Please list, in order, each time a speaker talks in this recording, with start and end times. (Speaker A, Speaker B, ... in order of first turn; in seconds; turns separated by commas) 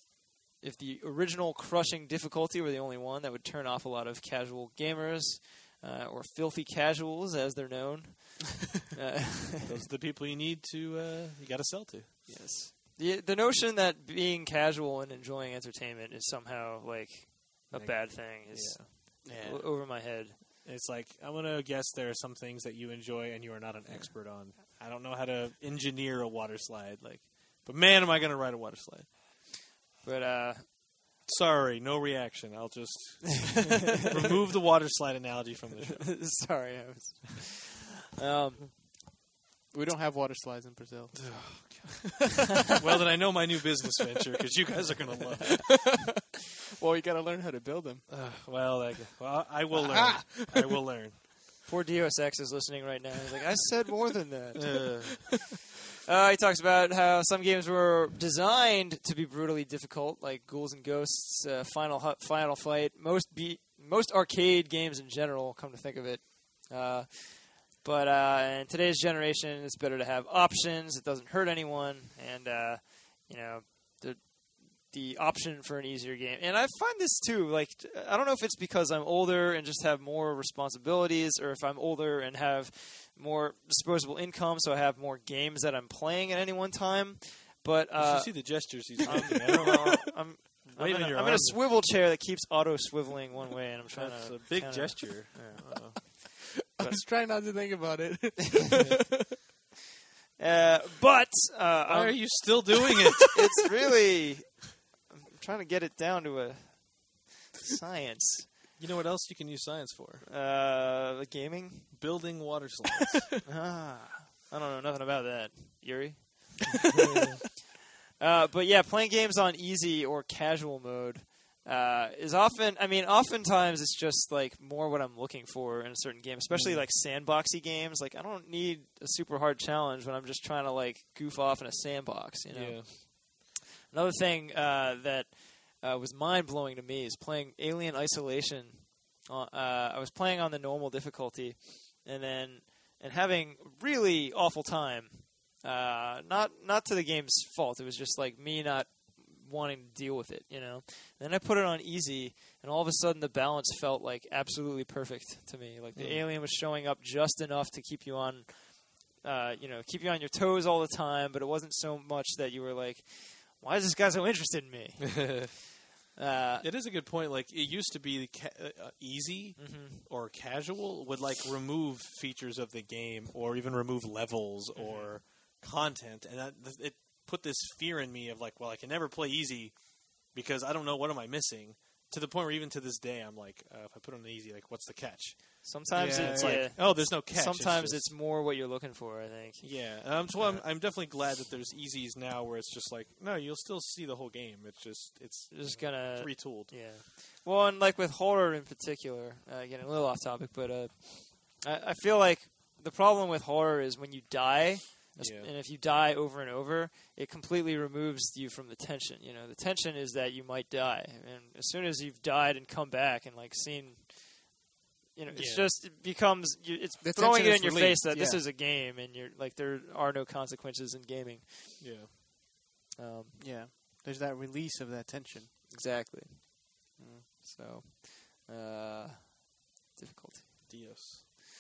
Speaker A: 0.6-9.7, Speaker B: 9.6-12.5, Speaker A: 12.3-20.4, Speaker B: 17.7-18.9, Speaker C: 19.2-19.7, Speaker B: 20.6-29.1, Speaker A: 30.0-30.7, Speaker B: 31.3-36.2, Speaker A: 35.9-38.8, Speaker C: 39.7-41.9, Speaker B: 41.1-45.8, Speaker C: 46.8-48.1, Speaker B: 48.1-51.2, Speaker C: 49.7-50.6, Speaker A: 51.7-55.2, Speaker B: 54.6-55.4, Speaker A: 56.0-96.2, Speaker B: 88.0-91.6, Speaker B: 93.9-96.0, Speaker C: 96.8-99.3, Speaker A: 96.8-97.0, Speaker A: 100.4-102.6, Speaker B: 101.8-103.4, Speaker A: 103.3-108.6, Speaker B: 108.8-110.3, Speaker A: 110.3-112.0, Speaker B: 111.9-113.4, Speaker A: 113.5-116.9, Speaker A: 118.2-165.6, Speaker B: 126.5-126.9, Speaker B: 132.5-132.9, Speaker B: 155.9-156.3, Speaker A: 166.2-166.7, Speaker B: 166.6-188.1, Speaker A: 169.6-170.1, Speaker A: 174.8-175.2, Speaker A: 185.6-190.7, Speaker C: 185.9-186.7, Speaker B: 189.6-196.9, Speaker A: 195.5-214.6, Speaker B: 205.2-205.5, Speaker A: 215.1-221.9, Speaker B: 215.3-215.8, Speaker C: 217.0-218.4, Speaker B: 221.8-222.1, Speaker A: 223.0-223.4, Speaker C: 223.4-225.6, Speaker A: 225.7-226.6, Speaker C: 227.0-227.3, Speaker A: 227.4-231.1, Speaker B: 230.7-231.2